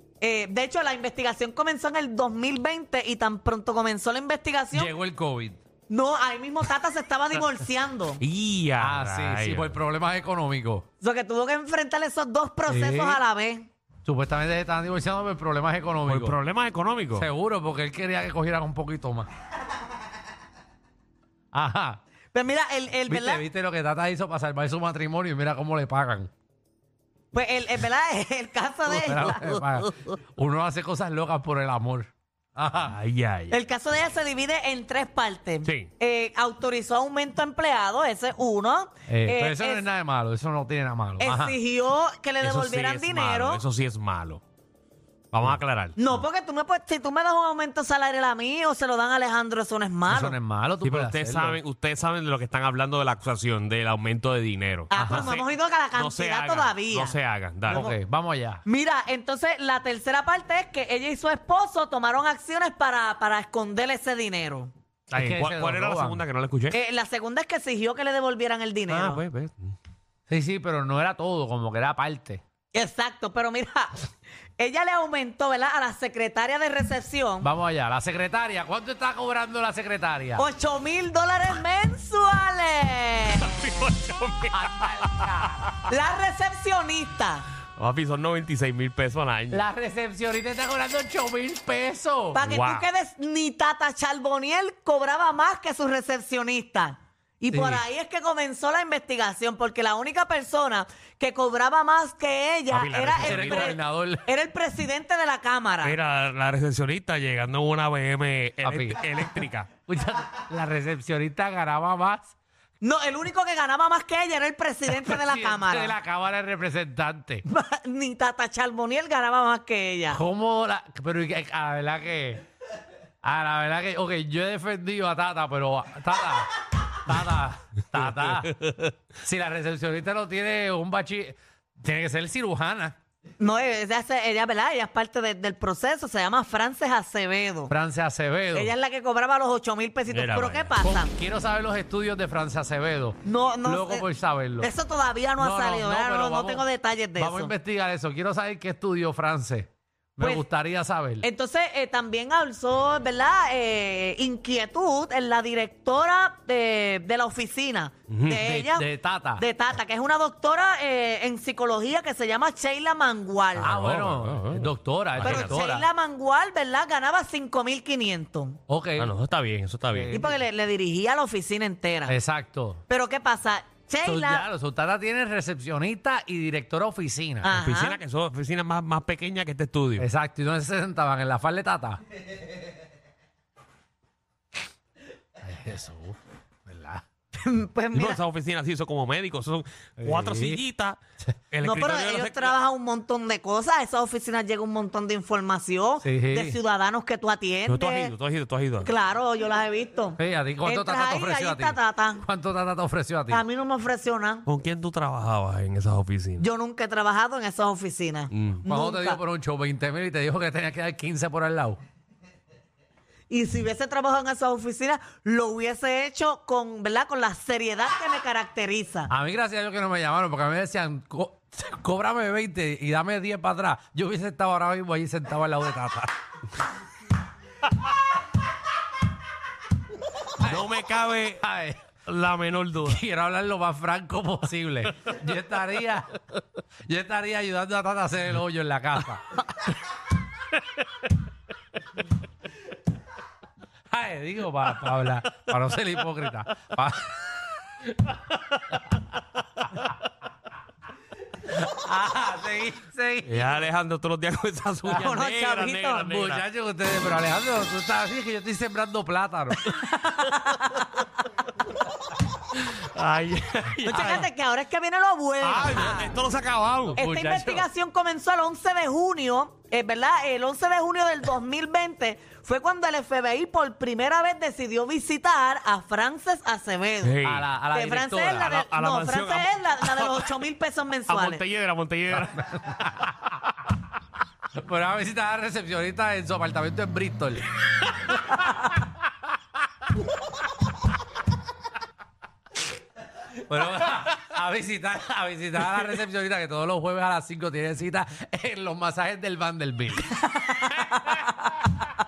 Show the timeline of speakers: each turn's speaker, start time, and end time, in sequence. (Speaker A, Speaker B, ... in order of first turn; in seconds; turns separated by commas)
Speaker A: 0.2-4.9, Speaker B: 4.7-5.6, Speaker A: 5.9-8.2, Speaker C: 8.2-9.8, Speaker B: 8.8-10.8, Speaker A: 11.0-13.7, Speaker B: 12.7-13.2, Speaker B: 14.1-16.4, Speaker C: 16.1-17.3, Speaker B: 17.1-19.3, Speaker B: 21.5-22.0, Speaker A: 22.3-23.4, Speaker B: 23.1-26.3, Speaker A: 27.3-29.9, Speaker B: 28.9-33.0, Speaker C: 32.9-33.6, Speaker A: 33.5-39.9, Speaker B: 39.1-41.6, Speaker A: 41.2-43.6, Speaker C: 42.4-44.4, Speaker C: 45.3-46.0, Speaker A: 46.0-50.4, Speaker B: 50.1-51.6, Speaker C: 50.8-57.9, Speaker A: 54.9-57.2, Speaker B: 55.0-55.3, Speaker B: 57.7-58.6, Speaker A: 58.7-64.7, Speaker C: 65.1-66.8, Speaker B: 65.1-66.2, Speaker A: 66.7-69.2, Speaker C: 68.9-69.7, Speaker B: 70.3-72.4, Speaker A: 72.7-74.1, Speaker A: 74.6-77.5, Speaker B: 77.4-80.5, Speaker A: 80.4-83.6, Speaker C: 83.4-85.3, Speaker B: 84.5-85.6, Speaker A: 85.9-87.5, Speaker C: 87.8-89.7, Speaker B: 89.5-92.4, Speaker A: 92.3-106.0, Speaker C: 92.4-92.9, Speaker B: 97.5-97.8, Speaker C: 102.7-103.7, Speaker B: 103.2-104.3, Speaker C: 105.8-109.7, Speaker B: 108.6-112.3, Speaker A: 112.8-116.0, Speaker B: 114.9-117.5, Speaker A: 117.5-120.2, Speaker B: 120.1-122.4, Speaker B: 123.2-128.5, Speaker C: 128.0-128.9, Speaker B: 129.2-133.0, Speaker A: 133.4-137.7, Speaker B: 137.7-138.7, Speaker A: 138.5-141.1, Speaker C: 140.1-140.7, Speaker B: 140.8-144.7, Speaker A: 143.2-144.1, Speaker A: 144.6-147.5, Speaker B: 145.4-151.3, Speaker A: 150.2-150.5, Speaker A: 151.2-163.7, Speaker C: 158.1-158.4, Speaker B: 158.3-159.5, Speaker C: 163.6-165.6, Speaker B: 163.6-165.9, Speaker A: 165.2-168.6, Speaker B: 168.7-169.1, Speaker C: 169.0-170.1, Speaker B: 169.9-170.4, Speaker A: 170.1-172.2, Speaker B: 172.1-172.8, Speaker A: 172.9-174.5, Speaker B: 174.1-177.5, Speaker A: 177.4-178.0, Speaker C: 177.5-180.1, Speaker B: 180.0-182.0, Speaker B: 185.4-187.0, Speaker A: 187.3-188.2, Speaker C: 187.9-191.0, Speaker B: 190.0-190.6, Speaker C: 191.5-192.6, Speaker A: 191.6-198.1, Speaker B: 196.0-196.6, Speaker C: 197.7-198.9, Speaker A: 198.8-202.2, Speaker B: 200.2-203.4, Speaker A: 203.3-204.4, Speaker C: 204.5-206.5, Speaker A: 206.4-209.2, Speaker C: 208.3-208.6, Speaker B: 208.7-211.8, Speaker A: 213.3-219.1, Speaker B: 219.1-226.1, Speaker B: 230.4-230.7, Speaker C: 230.4-231.4, Speaker B: 231.4-231.8, Speaker C: 232.1-233.0, Speaker B: 232.8-236.1, Speaker B: 236.9-239.2, Speaker B: 243.9-247.1, Speaker C: 248.3-249.0, Speaker C: 249.6-249.9, Speaker B: 251.5-253.5, Speaker C: 253.3-256.4, Speaker B: 254.8-255.1, Speaker A: 254.9-256.1, Speaker B: 256.1-259.7, Speaker A: 259.9-260.9, Speaker C: 260.2-261.0, Speaker C: 262.5-264.3, Speaker A: 263.9-266.1, Speaker C: 265.4-267.0, Speaker B: 266.9-267.7, Speaker A: 267.0-277.1, Speaker C: 277.0-277.5, Speaker B: 277.2-278.6, Speaker A: 277.7-281.4, Speaker C: 278.4-280.4, Speaker C: 281.1-283.5, Speaker B: 282.1-283.1, Speaker B: 284.6-287.4, Speaker B: 293.4-300.1